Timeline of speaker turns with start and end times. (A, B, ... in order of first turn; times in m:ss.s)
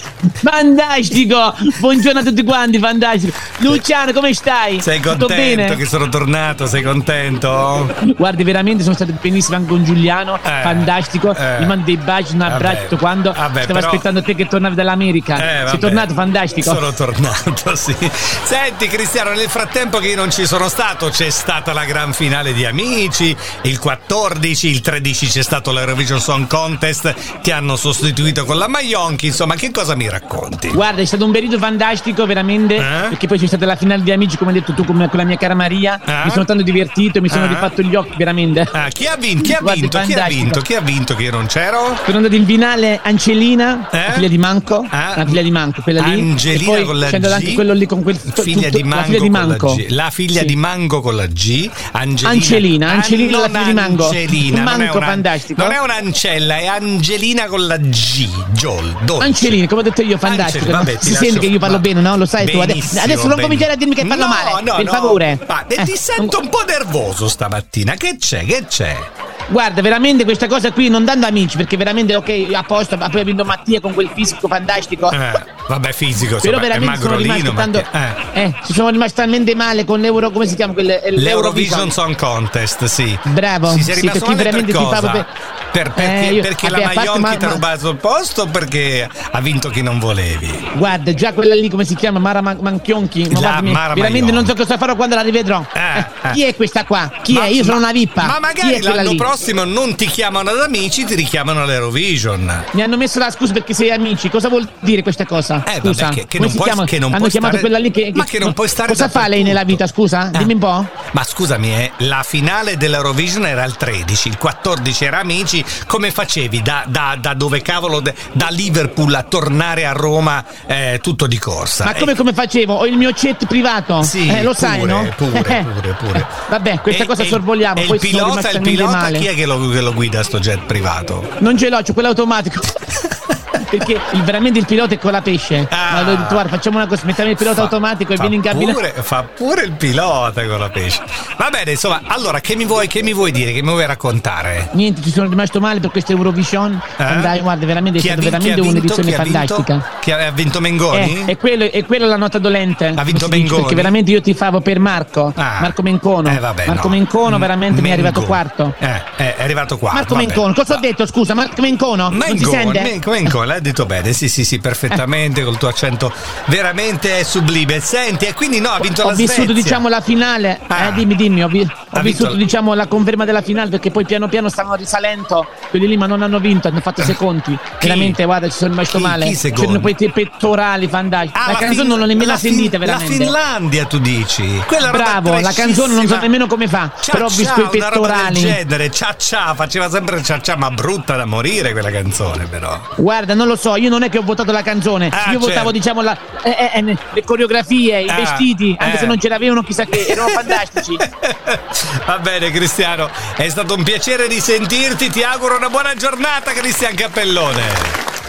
0:00.4-0:05.8 A
0:04.8-0:08.0 B
0:08.0-0:16.8 A
0:10.4-0:11.8 B
0:12.5-0:14.0 B
0:15.4-0:30.8 B
0:30.7-0:38.7 A
0:32.8-0:33.2 B
0:36.1-0:36.4 B
0:37.3-0:37.7 B
0:38.7-0:42.0 B
0:39.4-0:40.6 A
0:42.0-0:49.8 A
0:43.9-0:44.3 B
0:44.9-0:45.4 B
0:46.0-0:47.6 B
0:48.3-0:59.6 B
0:52.2-0:55.8 A
0:59.2-1:06.4 A
1:00.2-1:09.1 B
1:09.5-1:15.2 A
1:15.1-1:18.2 B
1:16.4-1:22.0 A
1:21.2-1:30.7 B
1:23.3-1:25.3 A
1:26.0-1:27.6 A
1:30.7-1:39.3 A
1:33.3-1:34.5 B
1:35.8-1:36.4 B
1:37.3-1:42.7 B
1:42.7-1:50.9 A
1:45.7-1:49.8 B
1:51.1-2:02.1 B
2:01.8-2:09.3 A
2:04.0-2:06.3 B
2:06.9-2:11.3 B
2:11.4-2:12.9 A
2:13.7-2:18.8 A
2:15.7-2:16.5 B
2:17.2-2:24.7 B
2:24.7-2:29.8 A
2:27.0-2:27.4 B
2:28.0-2:31.3 B
2:30.9-2:38.8 A
2:33.0-2:33.9 B
2:35.4-2:40.8 B
2:39.9-2:43.3 A
2:42.1-2:49.8 B
2:48.8-3:03.3 A
2:50.7-2:51.1 B
2:51.9-2:52.4 B
2:57.8-2:58.2 B
2:58.9-2:59.9 B
3:01.4-3:06.3 B
3:04.8-3:08.6 A
3:07.0-3:12.9 B
3:13.0-3:21.0 A
3:15.1-3:15.7 B
3:18.1-3:19.2 B
3:19.9-3:28.0 B